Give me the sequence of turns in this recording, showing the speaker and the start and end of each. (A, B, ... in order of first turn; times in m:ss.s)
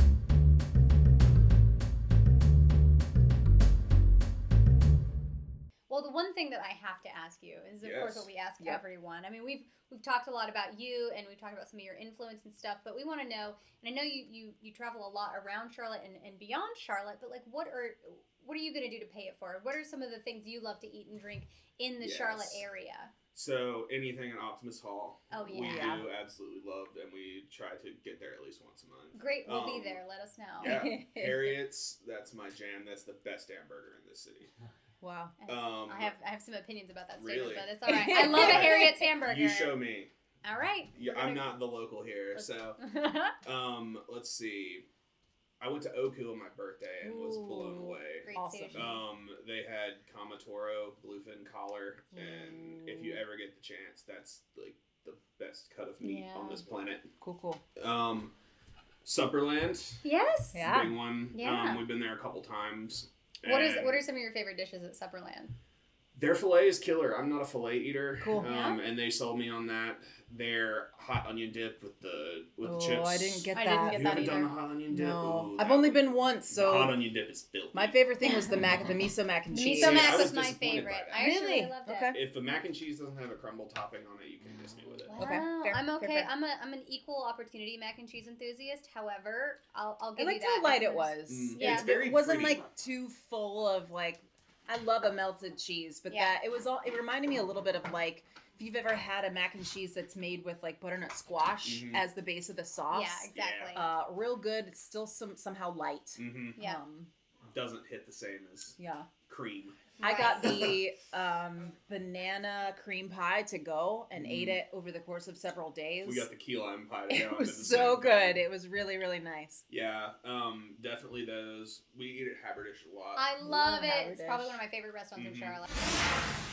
0:05.9-0:23.1 A
0:07.8-0:08.3 B
0:22.0-0:22.6 B
0:23.3-0:30.0 B
0:25.3-0:26.0 A
0:25.5-0:26.1 C
0:29.1-0:30.8 A
0:30.6-0:34.5 B
0:30.6-0:31.6 C
0:35.0-0:35.4 C
0:35.4-0:39.8 A
0:35.5-0:36.1 B
0:37.2-0:40.1 B
0:37.9-0:39.0 C
0:40.4-0:41.5 A
0:40.9-0:42.8 B
0:42.4-0:43.3 A
0:43.4-0:44.8 B
0:45.6-0:57.1 B
0:47.0-0:48.9 C
0:48.2-0:49.0 A
0:52.1-0:53.2 C
0:56.0-0:56.6 A
0:57.2-0:57.6 C
0:57.8-0:58.3 B
0:59.0-1:00.0 B
1:00.0-1:00.7 A
1:00.5-1:01.0 C
1:00.6-1:04.0 B
1:01.3-1:01.8 A
1:03.4-1:05.5 A
1:06.1-1:18.0 B
1:08.2-1:08.5 C
1:08.4-1:08.8 A
1:12.6-1:17.0 C
1:13.5-1:14.5 A
1:17.7-1:20.3 C
1:19.5-1:22.2 A
1:19.6-1:21.2 B
1:21.2-1:22.2 C
1:22.1-1:25.2 B
1:25.1-1:32.0 A
1:25.2-1:26.3 C
1:30.2-1:47.1 C
1:31.3-1:32.6 B
1:36.1-1:36.4 A
1:41.6-1:42.0 B
1:42.9-1:43.8 A
1:43.3-1:43.8 B
1:46.2-1:46.6 B
1:47.5-1:50.0 B
1:48.8-1:49.1 C
1:50.0-1:50.7 A
1:50.0-1:56.3 C
1:54.1-1:54.6 B
1:56.0-1:58.4 B
1:57.1-1:59.6 C
1:59.7-2:03.2 B
2:03.2-2:05.7 A
2:03.4-2:04.6 C
2:05.2-2:05.6 B